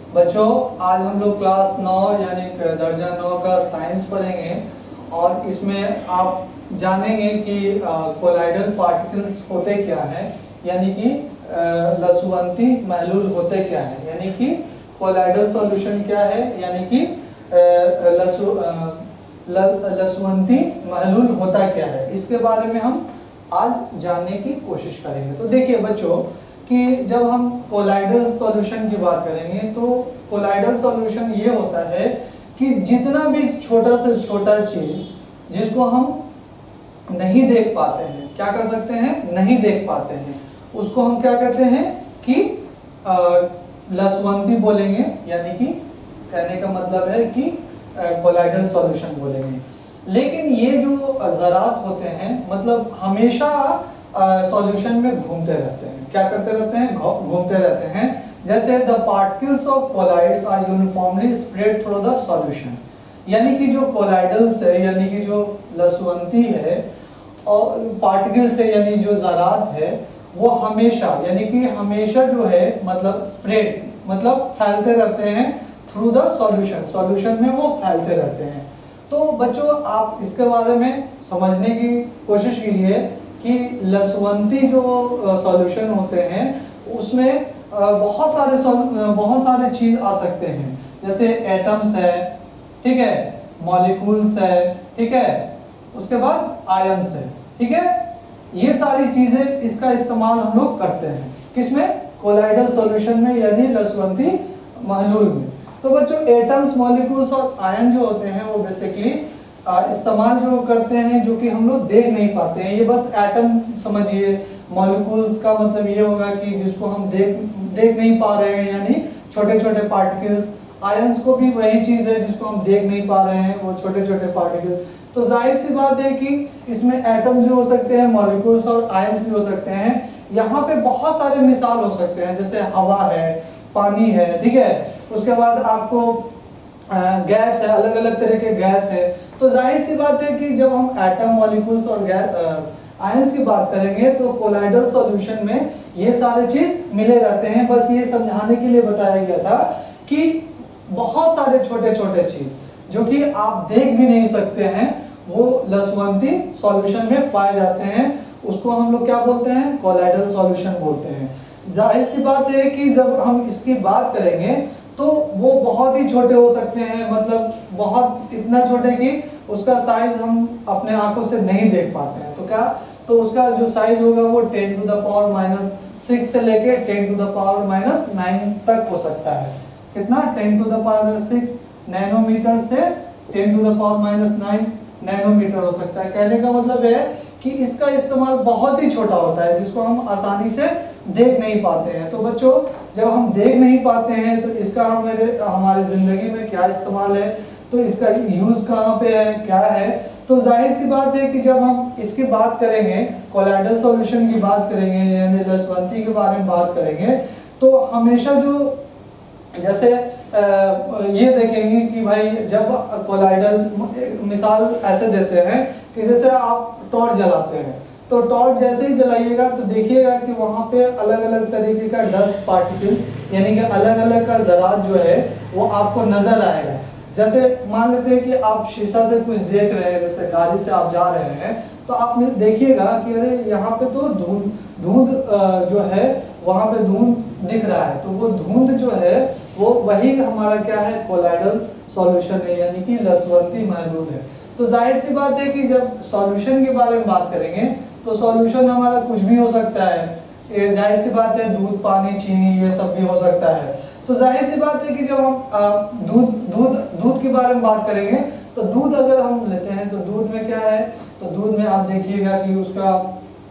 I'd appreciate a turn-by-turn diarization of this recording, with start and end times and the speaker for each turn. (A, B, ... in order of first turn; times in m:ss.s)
0:00.1-0:36.2 A
0:37.1-1:06.8 A
1:07.4-1:32.3 A
1:32.8-1:38.0 A
1:38.5-2:16.3 A
2:16.9-3:28.8 A
3:29.6-4:23.1 A